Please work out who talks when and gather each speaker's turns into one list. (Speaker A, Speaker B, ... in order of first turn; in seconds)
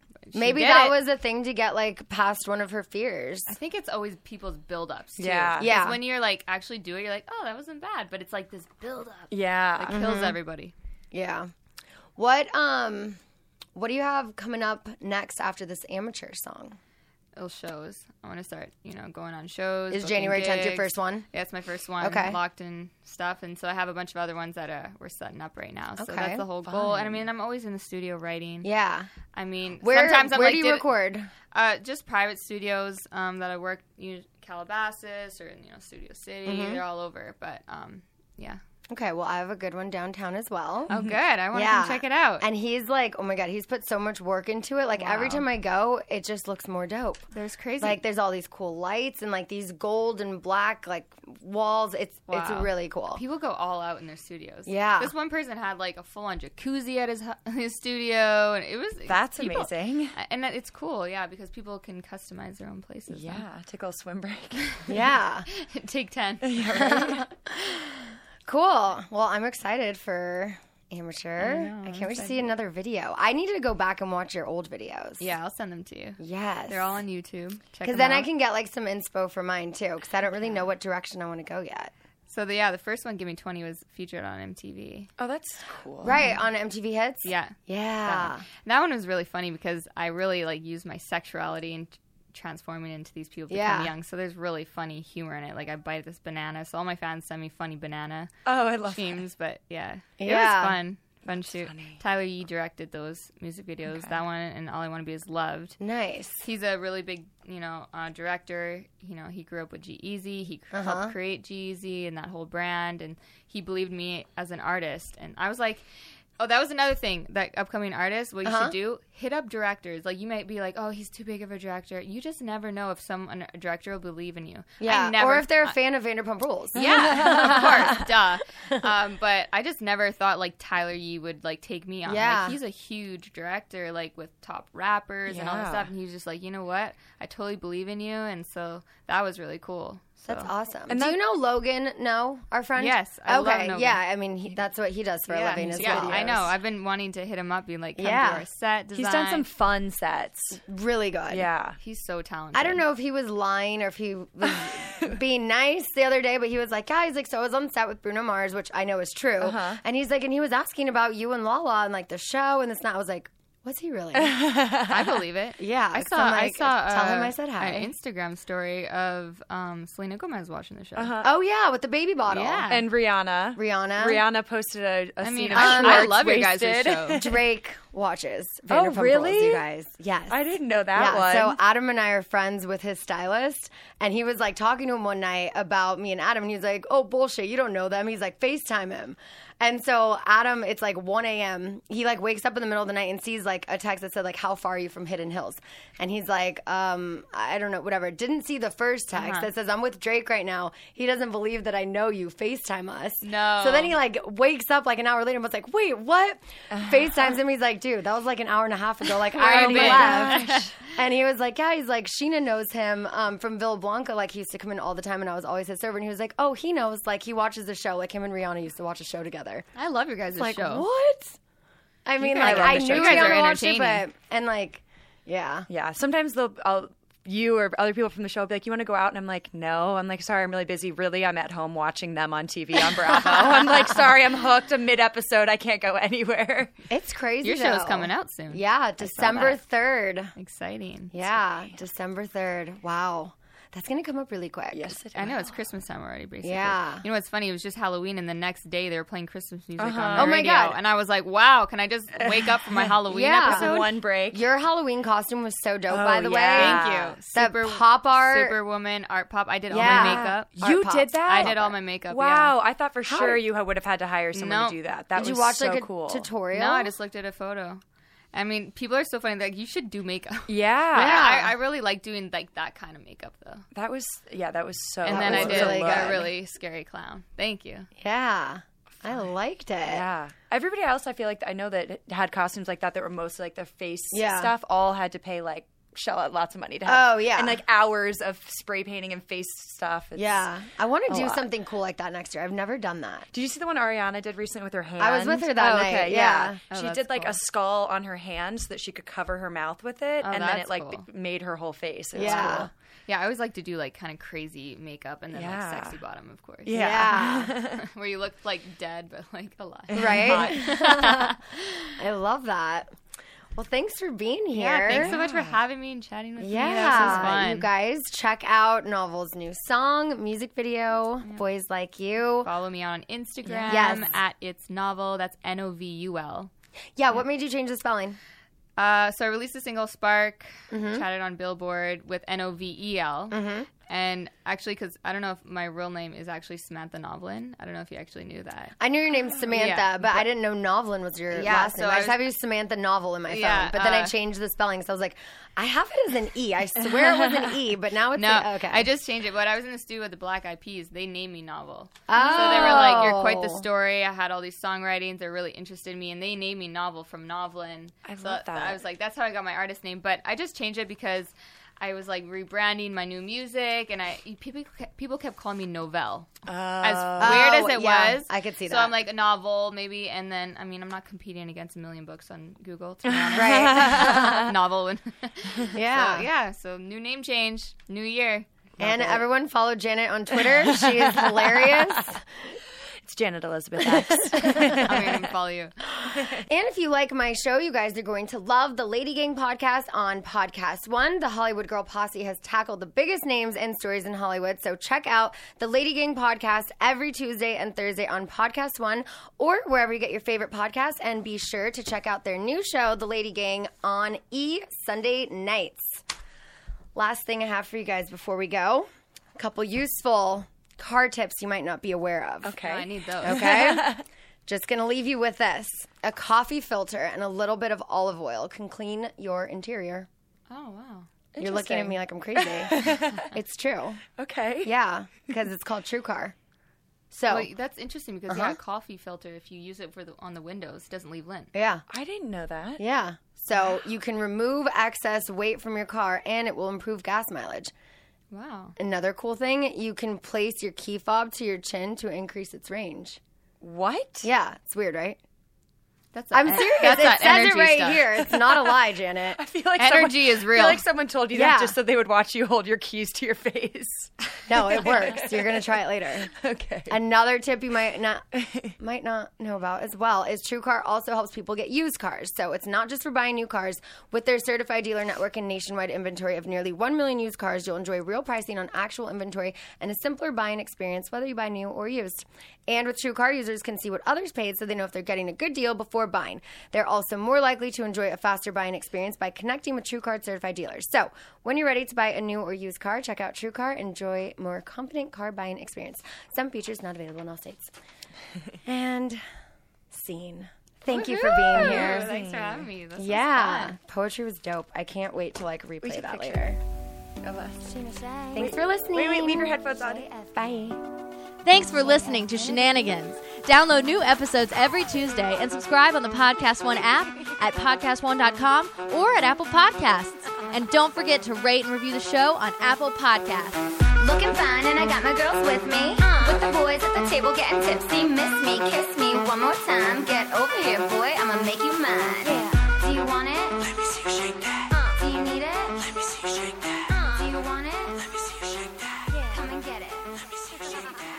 Speaker A: 0.3-1.0, 3.5-10.7, 17.4-28.7, 29.3-30.9, 31.5-38.6, 40.9-42.5, 45.0-45.5, 47.3-48.0, 52.3-63.5, 65.5-66.8, 71.4-72.5, 75.2-78.3, 82.3-85.1, 86.1-86.4, 87.2-98.3, 98.9-105.8, 106.4-115.8, 116.4-125.8, 126.7-140.5, 142.8-144.0, 145.3-149.5, 151.8-152.8, 164.9-171.2, 172.3-172.8, 175.2-177.2, 199.2-199.5, 203.2-204.0, 209.4-210.7, 219.8-220.9, 222.4-224.1, 237.4-239.6, 240.4-241.1, 245.2-253.8, 256.5-260.5, 261.3-262.6, 264.3-264.8, 266.5-267.8, 268.3-273.7, 275.1-277.9, 296.7-297.4, 300.2-301.1, 302.1-311.4, 314.5-317.7, 322.4-326.5, 328.8-338.8, 339.5-340.3, 341.3-342.2, 343.3-344.1, 348.2-378.5, 384.7-385.8, 412.6-413.5, 420.5-421.1, 427.3-431.5, 438.3-438.8, 446.1-448.2, 449.8-450.8, 490.9-493.8
Speaker B: 0.3-3.5, 5.6-6.0, 9.9-10.4, 11.1-11.5, 12.2-13.2, 13.8-16.8, 19.9-21.3, 22.0-22.4, 26.0-26.4, 28.6-29.1, 29.8-31.3, 36.5-36.8, 38.9-40.9, 41.5-47.2, 47.8-53.2, 54.7-55.1, 64.9-65.5, 66.7-75.3, 76.2-77.0, 77.8-81.9, 86.0-88.5, 93.5-93.9, 100.2-100.8, 105.8-106.5, 110.7-111.1, 118.5-118.7, 124.8-128.0, 132.1-132.6, 140.2-146.5, 148.0-148.5, 150.7-151.5, 152.5-164.4, 165.6-167.9, 171.2-172.7, 173.6-174.2, 175.5-176.2, 177.2-219.7, 220.4-221.4, 222.1-225.7, 236.9-240.3, 241.1-245.0, 246.4-247.1, 250.2-250.8, 253.1-258.6, 259.7-261.6, 263.1-263.4, 265.1-266.9, 270.9-271.6, 275.1-276.3, 278.0-280.0, 284.1-284.5, 286.9-287.6, 290.2-293.3, 295.0-296.6, 302.1-302.7, 306.7-307.6, 309.9-312.9, 313.6-315.1, 316.4-322.5, 323.7-324.1, 327.0-328.2, 330.7-331.0, 333.3-333.7, 338.8-348.9, 352.1-353.6, 367.2-368.9, 373.4-374.5, 375.7-376.3, 378.8-382.2, 384.1-384.9, 385.9-406.0, 406.9-412.6, 413.2-420.1, 421.4-424.1, 424.6-426.4, 427.1-427.5, 428.3-428.6, 431.5-431.9, 432.8-437.7, 438.8-443.2, 444.2-445.2, 446.3-449.4, 451.3-451.8, 454.5-456.3, 456.9-458.2, 458.8-487.7, 488.6-489.2, 489.9-492.1, 493.0-496.6, 497.7-500.8, 501.9-502.4
Speaker C: 5.2-5.7, 9.3-10.0, 26.7-27.3, 40.9-41.2, 59.1-60.1, 63.1-64.7, 66.4-67.2, 85.2-86.2, 98.5-99.2, 101.2-102.0, 103.9-104.2, 126.8-128.1, 135.3-135.9, 140.9-141.2, 145.6-146.5, 148.9-150.6, 151.3-151.8, 154.7-155.1, 159.4-159.8, 164.2-165.2, 171.0-171.3, 172.7-177.4, 178.7-179.6, 180.3-181.6, 206.7-207.1, 209.3-210.7, 222.2-223.5, 225.7-236.8, 241.3-241.8, 244.7-245.5, 249.8-250.5, 252.2-254.5, 255.9-257.1, 259.7-266.3, 270.5-271.3, 273.7-276.3, 279.8-290.5, 291.1-291.5, 293.3-302.7, 305.3-306.0, 306.7-307.8, 309.9-310.8, 314.9-315.6, 316.8-317.4, 323.5-324.1, 346.8-347.6, 352.1-353.0, 358.0-358.8, 366.5-367.5, 373.1-374.5, 378.8-379.2, 380.4-382.0, 383.0-385.3, 386.1-386.4, 412.4-414.0, 421.3-423.3, 424.2-424.7, 431.9-432.8, 443.6-444.3, 449.4-457.0, 458.3-458.7, 490.9-492.7, 495.8-496.6, 497.2-497.8, 498.3-500.1
Speaker D: 501.4-513.6
Speaker E: 514.0-531.0